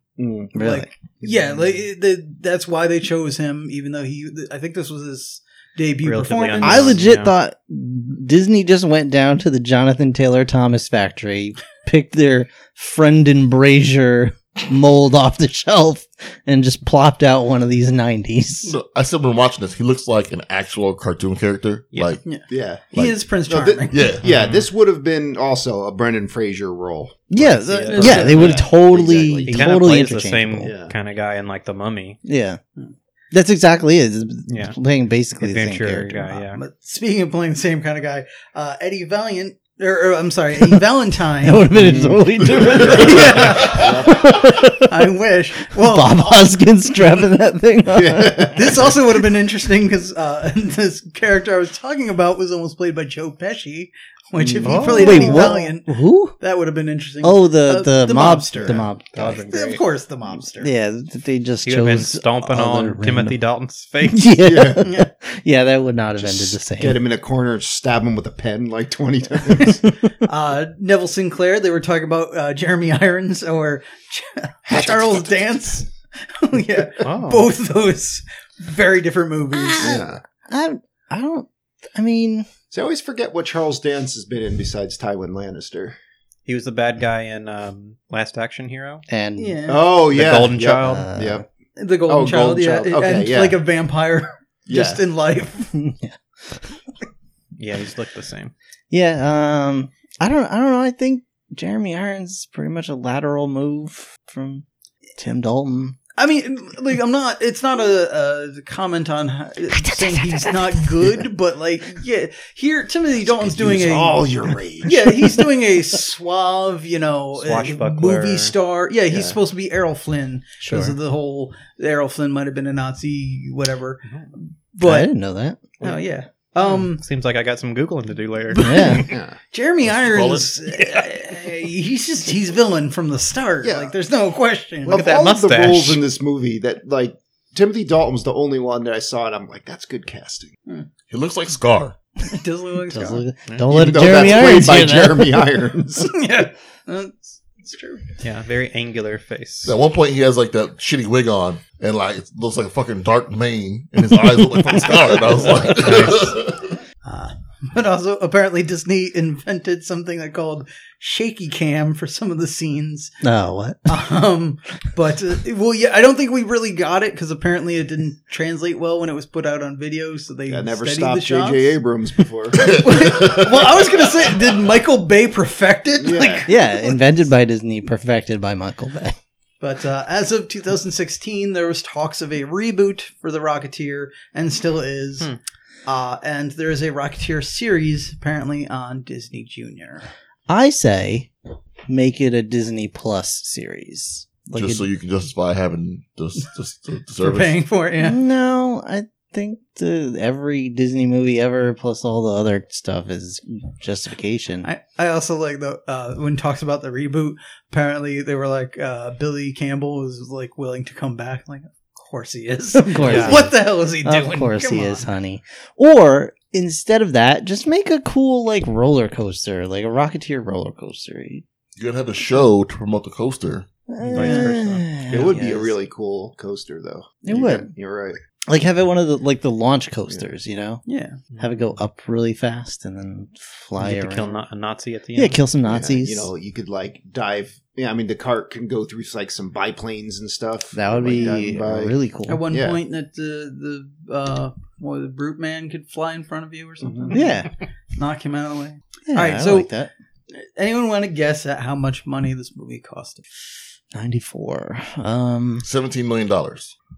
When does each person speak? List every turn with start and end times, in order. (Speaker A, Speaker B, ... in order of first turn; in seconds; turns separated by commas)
Speaker A: 0.2-0.6, Speaker B: 0.6-0.9, Speaker C: 0.6-7.0, Speaker A: 1.2-1.7, Speaker D: 6.0-7.3, Speaker B: 6.6-18.8, Speaker E: 18.6-22.2, Speaker C: 22.2-24.2, Speaker A: 22.5-22.9, Speaker E: 22.9-23.2, Speaker A: 23.5-29.8, Speaker E: 23.9-24.2, Speaker D: 24.2-24.7, Speaker B: 27.3-30.7, Speaker D: 27.7-28.7, Speaker C: 27.9-28.6, Speaker D: 29.5-32.2, Speaker A: 30.6-30.9, Speaker B: 32.2-32.6, Speaker B: 33.3-36.2, Speaker D: 34.5-34.8, Speaker D: 35.4-36.6, Speaker C: 36.3-41.8, Speaker B: 41.4-48.5, Speaker A: 41.8-44.3, Speaker C: 42.5-44.1, Speaker C: 44.8-46.5, Speaker A: 47.9-48.9, Speaker C: 48.5-58.8, Speaker B: 54.4-56.4, Speaker D: 54.6-55.5, Speaker B: 57.2-59.4, Speaker D: 59.1-59.8, Speaker C: 59.4-60.7, Speaker B: 60.6-63.4, Speaker D: 61.6-64.3, Speaker B: 64.0-67.0, Speaker A: 64.4-64.9, Speaker C: 64.8-65.1, Speaker A: 66.2-69.8, Speaker C: 70.2-80.0, Speaker A: 74.7-75.7, Speaker D: 77.0-77.5, Speaker B: 79.5-82.5, Speaker A: 79.8-80.2, Speaker A: 82.7-86.0, Speaker D: 86.5-89.0, Speaker B: 89.1-89.6, Speaker C: 89.4-89.9, Speaker A: 89.7-91.5, Speaker D: 90.1-91.1, Speaker B: 90.7-91.5, Speaker C: 91.8-95.7, Speaker A: 92.1-93.6, Speaker A: 94.7-95.0, Speaker B: 95.7-96.8, Speaker D: 97.6-98.5, Speaker B: 98.9-104.6, Speaker B: 105.2-106.0, Speaker C: 106.2-114.2, Speaker B: 109.8-111.2, Speaker A: 113.3-115.3, Speaker C: 114.8-125.1, Speaker D: 117.4-118.5, Speaker A: 119.1-119.4, Speaker B: 120.6-121.0, Speaker B: 124.8-125.7, Speaker C: 125.8-127.0, Speaker D: 126.9-129.1, Speaker C: 128.5-135.1, Speaker B: 128.6-129.1, Speaker A: 129.0-129.4, Speaker E: 129.8-131.0, Speaker A: 133.6-133.9, Speaker A: 134.8-140.5, Speaker D: 134.9-136.0, Speaker E: 141.1-142.0, Speaker C: 142.2-143.2, Speaker B: 142.9-145.5, Speaker A: 143.7-146.2, Speaker C: 146.1-148.2, Speaker D: 148.2-149.8, Speaker E: 149.7-156.8, Speaker C: 157.0-163.2, Speaker B: 163.2-164.0, Speaker C: 163.9-171.8, Speaker A: 170.5-172.8, Speaker E: 172.6-174.1, Speaker C: 172.6-177.0, Speaker A: 176.0-176.5, Speaker B: 176.5-179.2, Speaker C: 179.6-185.3, Speaker C: 185.9-190.1, Speaker B: 190.5-191.3, Speaker B: 191.9-194.8, Speaker E: 194.5-197.6, Speaker C: 197.2-198.2, Speaker B: 198.0-204.7, Speaker C: 204.6-215.1, Speaker B: 212.8-221.4, Speaker D: 213.0-213.5, Speaker E: 221.8-223.7, Speaker B: 223.9-225.7, Speaker D: 224.1-225.2, Speaker C: 224.2-224.6, Speaker A: 225.1-228.2, Speaker B: 227.2-227.7, Speaker B: 228.5-230.8, Speaker C: 230.9-231.2, Speaker B: 231.4-234.4, Speaker D: 233.8-235.4, Speaker B: 235.2-236.3, Speaker A: 235.7-241.9, Speaker B: 240.7-242.5, Speaker C: 242.3-247.4, Speaker A: 242.5-242.8, Speaker A: 246.8-247.2, Speaker B: 247.1-247.5, Speaker C: 247.9-249.7, Speaker B: 249.1-249.9, Speaker C: 250.3-253.2, Speaker B: 253.9-255.7, Speaker E: 255.6-256.8